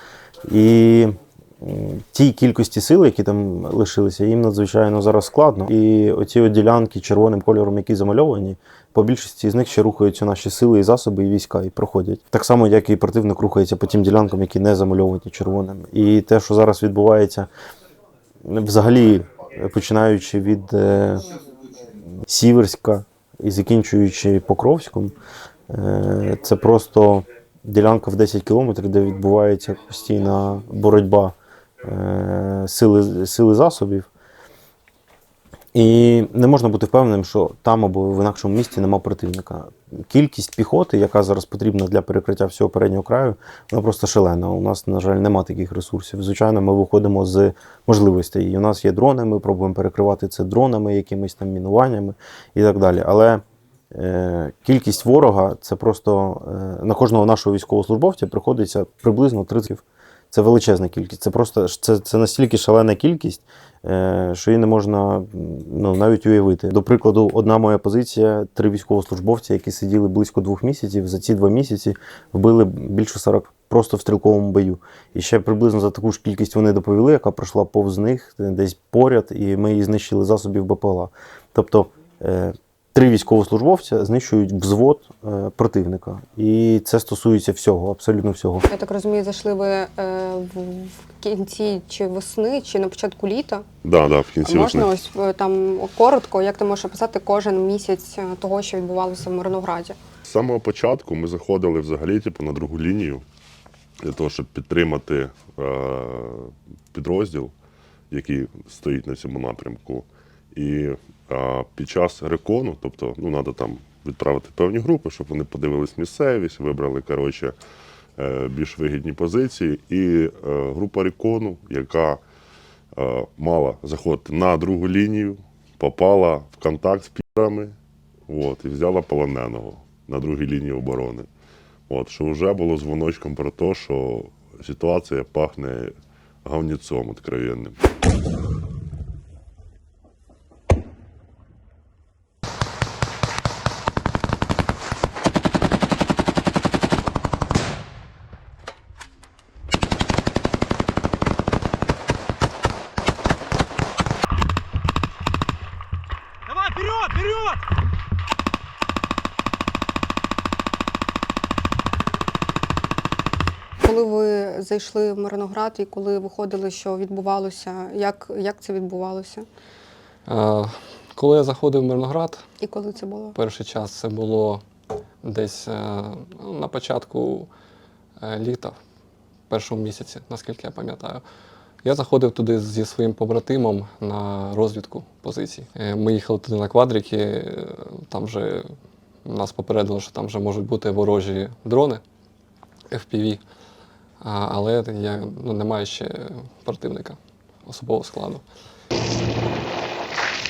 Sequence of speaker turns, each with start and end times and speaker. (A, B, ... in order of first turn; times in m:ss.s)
0:00.5-0:17.5 A
0:18.4-0:21.2 A
0:22.2-0:25.1 A
0:25.7-0:34.1 A
0:35.7-1:28.7 A
1:28.7-1:33.6 B
1:33.8-1:34.9 C
1:34.4-1:40.0 B
1:40.2-1:43.2 C
1:44.0-1:47.5 C
1:48.1-1:57.6 C
1:58.2-2:02.2 C
2:02.9-2:07.8 C
2:08.3-2:11.3 C
2:11.9-2:15.9 C
2:16.4-2:17.8 C
2:43.8-2:49.5 B
2:50.3-2:52.4 D
2:52.6-2:53.4 B
2:53.3-2:54.6 D
2:55.2-2:57.5 D
2:58.2-2:58.8 D
2:59.5-3:01.2 D
3:01.8-3:08.7 D
3:09.2-3:12.0 D
3:12.9-3:13.4 D
3:14.2-3:18.4 D